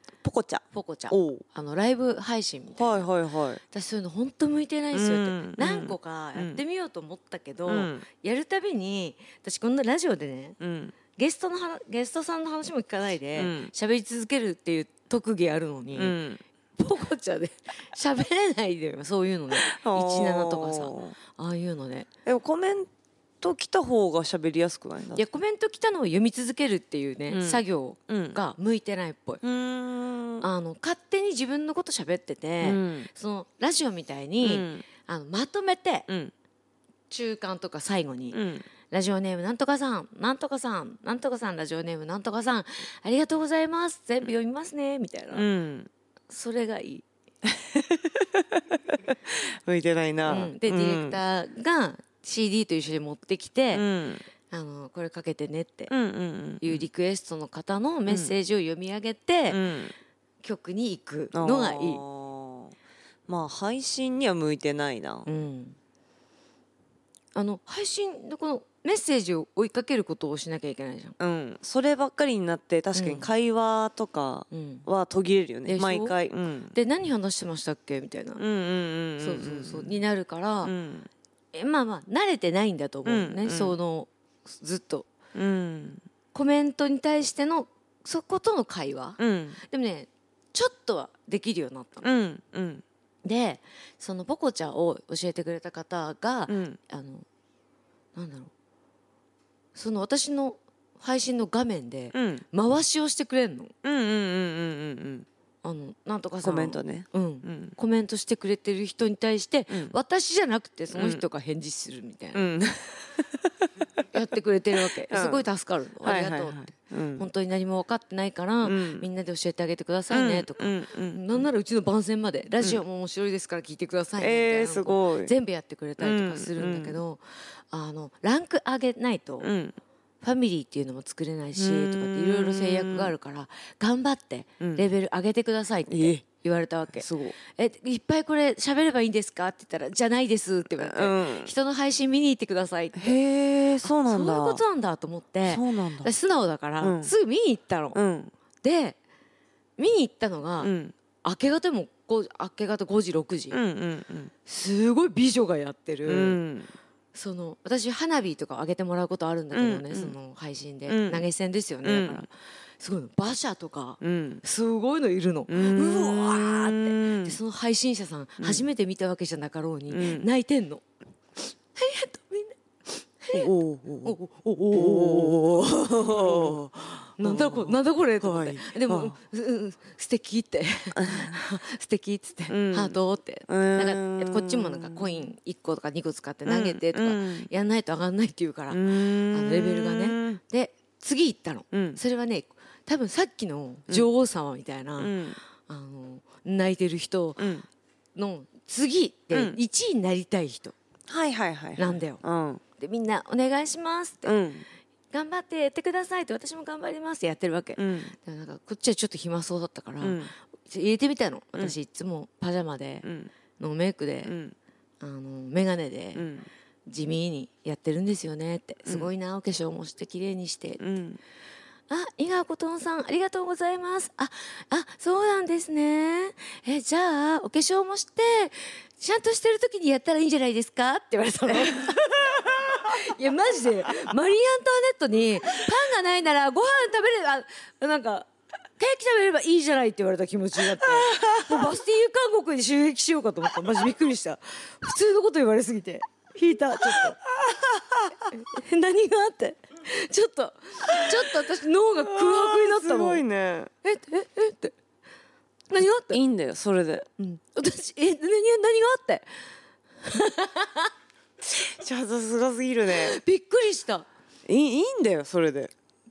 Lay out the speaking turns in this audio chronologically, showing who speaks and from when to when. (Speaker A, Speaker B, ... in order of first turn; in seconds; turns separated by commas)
Speaker A: 0.2-1.4, Speaker B: 0.7-3.1, Speaker A: 2.8-3.6, Speaker B: 3.7-10.6, Speaker A: 4.9-6.6, Speaker A: 7.7-8.0, Speaker A: 10.6-10.9, Speaker B: 11.2-16.1, Speaker A: 13.3-13.7, Speaker A: 15.9-16.4, Speaker B: 16.8-22.1, Speaker A: 19.5-21.1, Speaker A: 22.2-22.9, Speaker A: 23.4-25.2, Speaker B: 25.1-29.4, Speaker A: 27.3-28.4, Speaker A: 29.4-30.5, Speaker B: 30.4-36.1, Speaker A: 32.6-33.1, Speaker A: 34.4-34.8, Speaker B: 37.1-45.5, Speaker A: 38.3-38.6, Speaker A: 45.3-45.9, Speaker B: 46.3-47.0, Speaker A: 47.7-51.2, Speaker B: 50.2-53.8, Speaker A: 53.7-54.2, Speaker B: 54.5-55.9, Speaker A: 55.9-56.9, Speaker B: 56.6-59.6, Speaker A: 58.1-58.3, Speaker A: 59.5-59.9, Speaker B: 60.4-62.0, Speaker A: 61.3-62.7, Speaker A: 63.3-65.3, Speaker B: 65.2-65.8, Speaker B: 67.3-71.1, Speaker A: 71.2-76.7, Speaker B: 72.9-73.3, Speaker B: 74.5-74.8, Speaker B: 75.7-76.2, Speaker B: 76.7-78.4, Speaker A: 78.4-80.0, Speaker B: 79.2-80.7, Speaker A: 80.6-81.1, Speaker B: 81.5-85.1, Speaker A: 83.0-83.8, Speaker A: 85.3-86.0, Speaker B: 86.3-92.1, Speaker A: 89.2-89.6, Speaker A: 92.0-92.8, Speaker B: 93.2-97.2, Speaker A: 96.5-96.8, Speaker B: 98.1-98.5, Speaker B: 99.7-103.7, Speaker A: 102.1-102.4, Speaker A: 103.8-105.2, Speaker B: 105.6-112.4, Speaker A: 106.4-107.8, Speaker A: 110.9-111.2, Speaker A: 112.3-113.3, Speaker B: 114.1-116.6, Speaker A: 114.9-115.5, Speaker A: 116.0-117.3, Speaker B: 117.2-129.5, Speaker A: 118.6-119.1, Speaker A: 120.1-121.5, Speaker A: 124.2-125.3, Speaker A: 126.0-127.0, Speaker A: 129.4-129.8, Speaker B: 130.2-143.2, Speaker A: 131.6-133.1, Speaker A: 135.9-136.2, Speaker A: 136.9-137.4, Speaker A: 140.8-141.5, Speaker A: 142.9-144.6, Speaker B: 143.8-148.0, Speaker A: 145.4-146.1, Speaker A: 146.8-147.1, Speaker A: 147.9-148.3, Speaker B: 148.6-149.0, Speaker B: 149.8-150.7, Speaker A: 150.6-150.9, Speaker B: 151.2-153.6, Speaker A: 153.5-154.3, Speaker B: 154.4-156.4, Speaker A: 156.1-156.7, Speaker B: 157.1-170.8, Speaker A: 159.5-160.2, Speaker A: 160.9-161.2, Speaker A: 161.8-162.2, Speaker A: 164.0-164.4, Speaker A: 165.5-167.4, Speaker A: 168.4-168.7, Speaker A: 169.9-170.3, Speaker B: 171.4-173.5, Speaker A: 173.3-174.2, Speaker B: 174.0-176.6, Speaker A: 174.7-179.2, Speaker B: 177.2-195.1, Speaker A: 180.9-181.4, Speaker A: 182.5-183.0, Speaker A: 183.5-185.2, Speaker A: 186.4-187.5, Speaker A: 188.7-190.4, Speaker A: 191.7-192.0, Speaker A: 195.0-195.4, Speaker B: 195.7-197.5, Speaker A: 197.4-197.7, Speaker B: 198.2-200.7, Speaker A: 199.3-199.6, Speaker A: 201.1-202.6, Speaker B: 201.8-202.2, Speaker B: 202.8-204.4, Speaker A: 204.2-204.6, Speaker B: 205.1-213.1, Speaker A: 207.8-208.1, Speaker A: 210.0-210.3, Speaker A: 213.0-213.3, Speaker B: 213.6-214.3, Speaker A: 214.2-214.5, Speaker B: 215.0-216.2, Speaker A: 216.2-216.5, Speaker B: 216.9-220.8, Speaker A: 220.8-221.2, Speaker B: 221.9-247.2, Speaker A: 240.6-241.7, Speaker A: 247.4-248.1, Speaker B: 248.3-253.2, Speaker A: 250.8-251.3, Speaker A: 251.9-253.7, Speaker B: 253.8-254.7, Speaker B: 255.7-256.2, Speaker A: 256.1-257.1, Speaker B: 257.2-259.4, Speaker B: 260.0-260.9, Speaker A: 261.5-263.2, Speaker B: 262.9-264.1, Speaker A: 264.4-265.7